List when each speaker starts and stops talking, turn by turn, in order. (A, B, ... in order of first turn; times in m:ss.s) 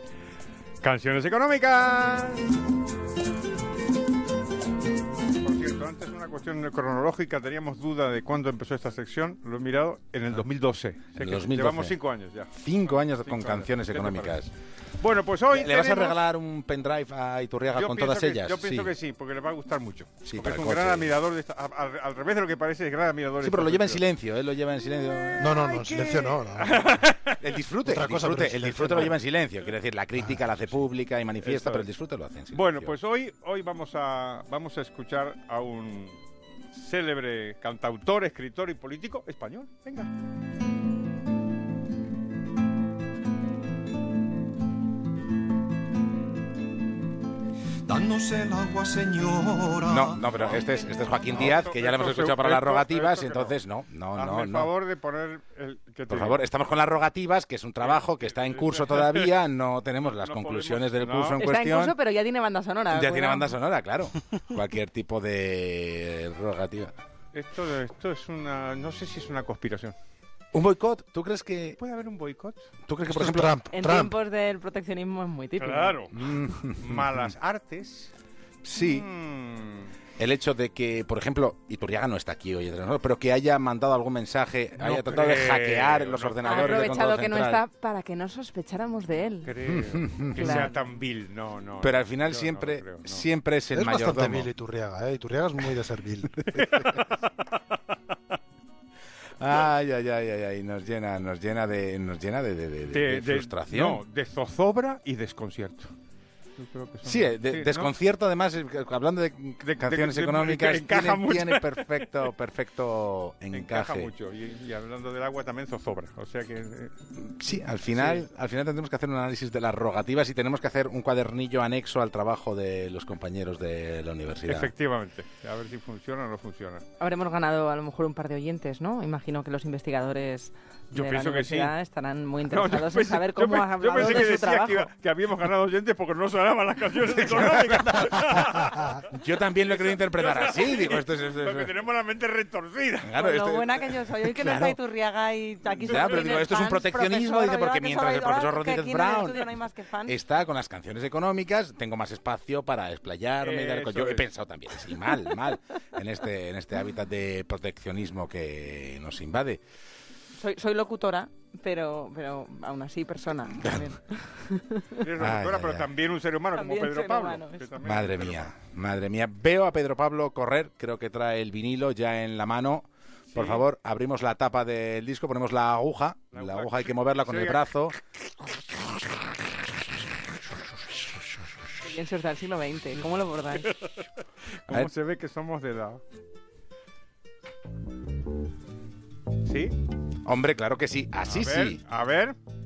0:00.8-0:02.5 A
0:05.4-0:14.4 A
0:11.2-0:12.0 B
0:12.5-0:14.5 B
0:15.0-0:16.2 A
0:15.5-0:18.9 B
0:17.7-0:24.0 A
0:20.2-0:21.1 B
0:23.4-0:25.7 B
0:25.4-0:27.0 C
0:25.5-0:27.5 A
0:27.4-0:33.0 B
0:27.8-0:29.2 C
0:30.2-0:30.5 C
0:31.4-0:31.9 A
0:32.5-0:36.2 A
0:36.7-0:40.1 A
0:47.9-0:50.5 D
0:49.8-0:54.7 B
0:50.2-0:53.6 A
0:54.2-0:56.4 A
0:56.1-1:02.0 B
0:57.8-0:59.3 A
1:00.1-1:01.4 A
1:01.4-1:03.6 E
1:02.9-1:07.0 B
1:07.3-1:09.9 A
1:10.5-1:11.8 B
1:11.8-1:12.7 A
1:12.9-1:13.7 B
1:13.0-1:14.1 C
1:13.7-1:16.0 E
1:15.6-1:18.1 A
1:16.1-1:17.0 B
1:18.6-1:19.0 B
1:18.7-1:19.9 A
1:20.2-1:27.6 B
1:24.8-1:26.9 A
1:26.4-1:29.5 E
1:29.4-1:33.3 A
1:29.6-1:30.6 B
1:30.3-1:30.7 E
1:31.8-1:34.5 B
1:33.7-1:36.8 C
1:36.5-1:37.2 A
1:39.4-1:44.0 B
1:42.9-1:45.9 A
1:46.6-1:47.9 A
1:47.0-1:54.1 B
1:49.6-1:52.2 A
1:53.5-1:56.9 A
1:57.2-2:04.7 B
1:57.5-1:58.2 A
2:04.5-2:06.8 A
2:07.0-2:14.9 E
2:10.9-2:11.7 A
2:12.4-2:23.1 A
2:18.4-2:21.7 B
2:23.0-2:24.8 B
2:23.2-2:30.2 E
2:25.8-2:29.5 B
2:25.9-2:26.3 A
2:30.0-2:39.6 B
2:33.4-2:34.2 A
2:40.3-2:45.0 E
2:43.5-2:43.9 B
2:45.0-2:48.5 A
2:45.2-2:45.9 B
2:46.5-2:47.7 E
2:47.8-2:58.0 B
2:53.3-2:53.6 A
2:56.3-2:57.6 A
3:01.8-3:03.7 E
3:04.7-3:06.0 A
3:09.4-3:09.7 A
3:10.2-3:11.8 B
3:11.2-3:12.4 A